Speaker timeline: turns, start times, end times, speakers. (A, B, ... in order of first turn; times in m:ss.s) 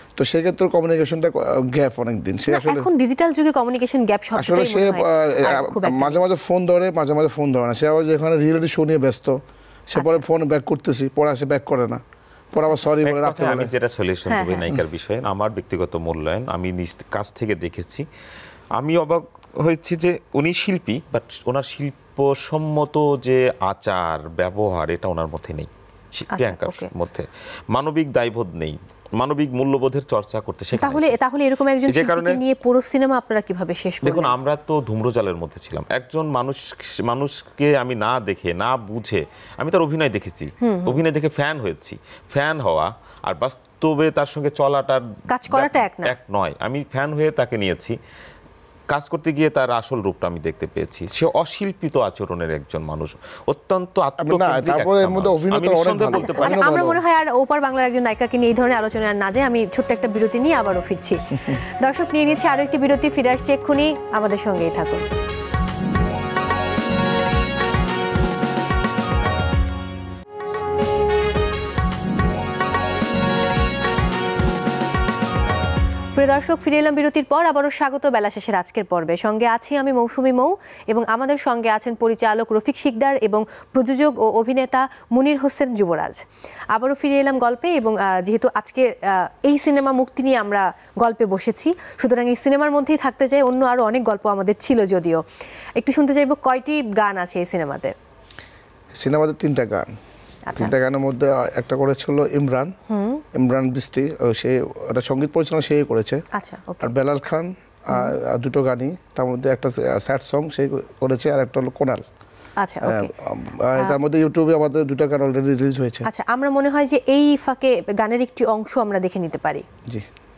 0:00.2-0:02.9 A
0:02.5-0:06.2 B
0:04.4-0:12.0 A
0:09.9-0:10.2 B
0:12.5-0:13.7 A
0:13.0-0:18.0 C
0:14.3-0:14.7 B
0:18.8-0:31.2 C
0:26.3-0:26.9 B
0:30.8-0:34.3 B
0:31.9-0:32.4 C
0:34.0-0:47.9 C
0:40.6-0:41.0 B
0:45.3-0:46.1 B
0:48.9-0:56.6 C
0:54.2-0:57.0 A
0:56.1-1:05.1 B
1:16.1-1:26.2 B
1:26.7-1:35.2 B
1:35.8-1:37.9 B
1:38.9-1:39.9 A
1:40.5-1:42.7 A
1:42.9-1:43.2 B
1:43.3-1:46.2 A
1:46.3-1:46.9 B
1:46.8-1:52.0 A
1:52.6-1:53.1 B
1:52.8-1:56.0 A
1:56.0-1:59.6 B